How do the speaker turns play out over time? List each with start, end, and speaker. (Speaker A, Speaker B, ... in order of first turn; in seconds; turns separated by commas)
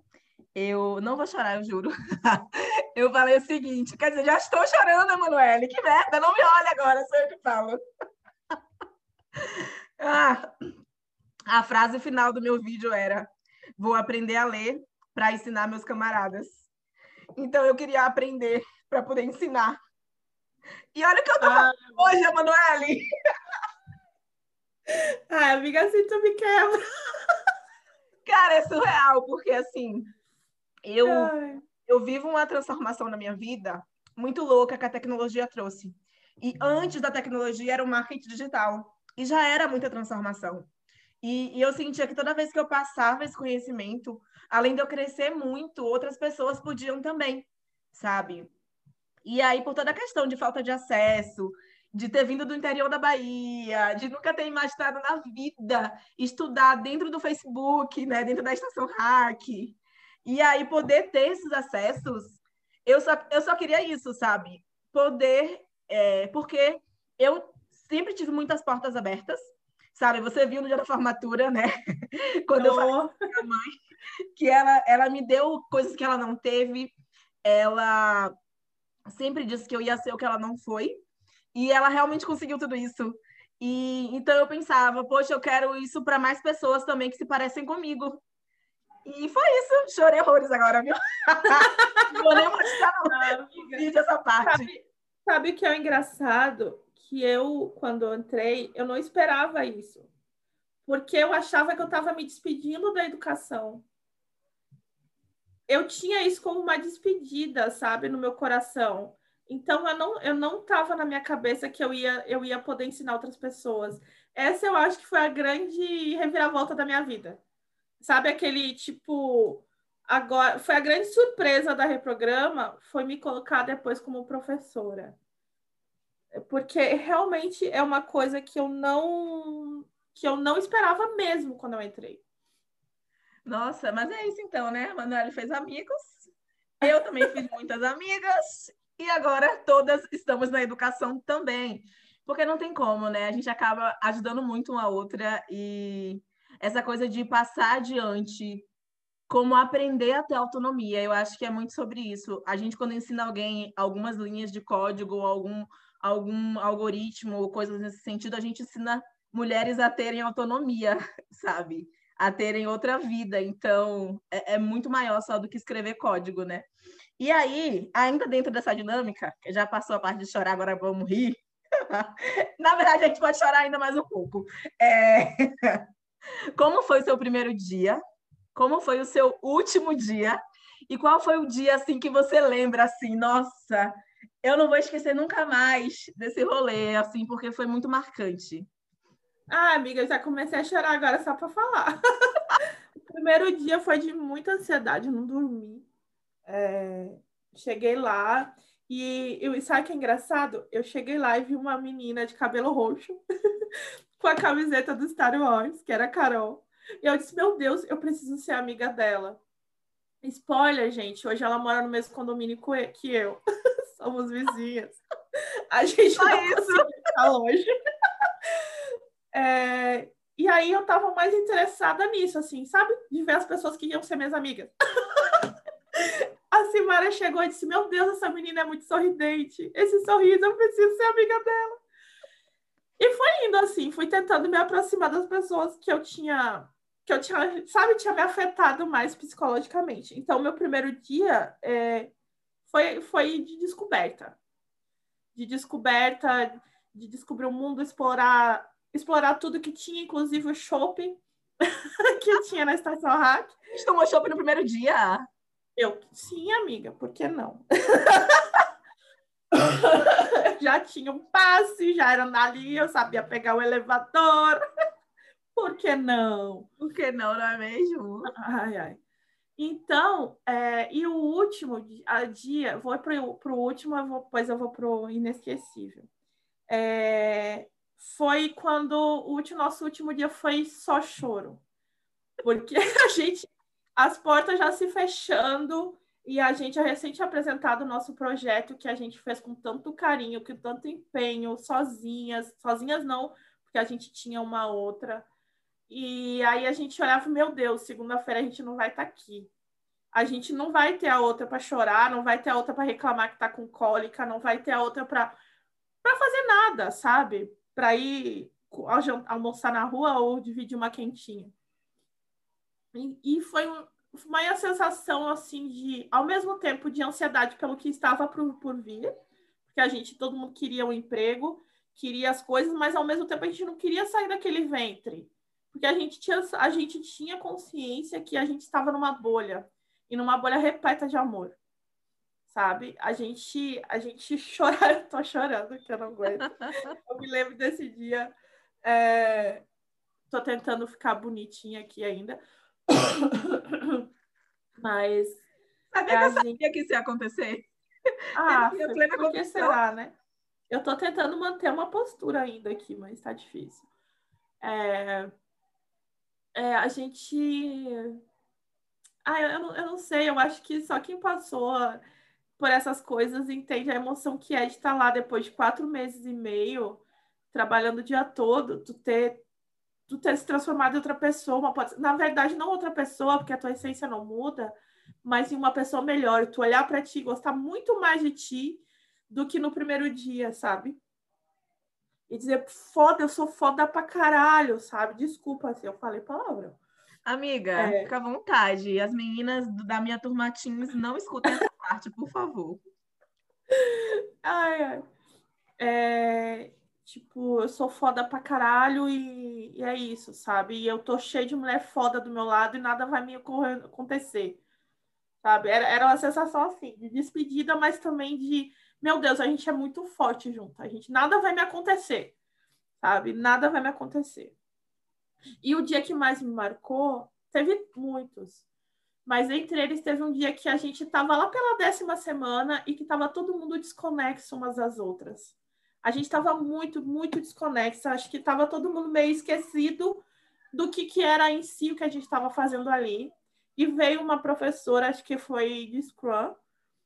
Speaker A: 0.5-7.8, Speaker A: 9.4-10.4, Speaker A: 11.5-16.6, Speaker A: 17.4-19.8, Speaker A: 20.9-23.1, Speaker B: 21.4-22.1, Speaker B: 25.3-26.8, Speaker A: 28.2-30.1, Speaker A: 30.9-31.3, Speaker B: 31.0-31.6, Speaker A: 31.8-40.7, Speaker A: 41.2-48.5, Speaker A: 49.2-69.4, Speaker A: 69.9-73.7, Speaker B: 72.6-73.1, Speaker A: 74.3-76.9, Speaker A: 77.4-78.3, Speaker A: 79.1-81.0, Speaker A: 81.5-88.2, Speaker A: 89.0-94.7, Speaker B: 91.5-92.4, Speaker B: 93.0-93.8, Speaker B: 94.4-100.1, Speaker B: 100.8-103.8, Speaker B: 105.7-117.4, Speaker B: 118.0-125.2, Speaker B: 126.3-132.2, Speaker A: 133.4-136.3, Speaker A: 136.8-148.7, Speaker B: 136.8-137.3, Speaker A: 149.3-175.8, Speaker A: 176.6-178.0, Speaker A: 178.5-188.7, Speaker B: 189.5-191.9, Speaker B: 193.0-195.8, Speaker B: 196.5-203.2, Speaker B: 204.2-209.4, Speaker B: 210.2-213.4, Speaker B: 213.9-215.0, Speaker B: 215.7-217.7, Speaker A: 216.2-216.9, Speaker B: 219.3-225.4, Speaker B: 226.5-231.7, Speaker B: 233.0-242.1, Speaker B: 242.7-244.4, Speaker B: 245.3-253.6, Speaker A: 253.7-255.2, Speaker B: 255.8-258.4, Speaker B: 259.5-264.6, Speaker B: 265.5-266.7, Speaker A: 266.8-268.3, Speaker B: 268.2-269.0, Speaker B: 269.6-276.1, Speaker B: 276.7-281.6, Speaker B: 282.4-295.2, Speaker B: 295.9-299.5, Speaker B: 300.1-305.4, Speaker B: 306.0-311.5, Speaker B: 312.9-319.1, Speaker B: 319.7-331.6, Speaker B: 332.5-336.5, Speaker B: 337.1-338.3, Speaker B: 338.8-339.6, Speaker B: 340.3-344.0, Speaker B: 344.8-345.4, Speaker A: 345.9-347.7, Speaker B: 346.1-346.6, Speaker B: 348.3-350.1, Speaker A: 348.4-349.8, Speaker B: 350.7-353.8, Speaker B: 354.6-355.3, Speaker B: 356.5-358.1, Speaker B: 359.2-362.0, Speaker B: 362.6-369.4, Speaker B: 370.1-381.0, Speaker B: 382.3-386.8, Speaker A: 387.2-392.8, Speaker B: 387.7-388.1, Speaker B: 393.8-395.0, Speaker B: 395.8-404.6, Speaker B: 405.4-412.3, Speaker B: 413.0-414.5, Speaker B: 415.6-418.6, Speaker B: 419.2-436.6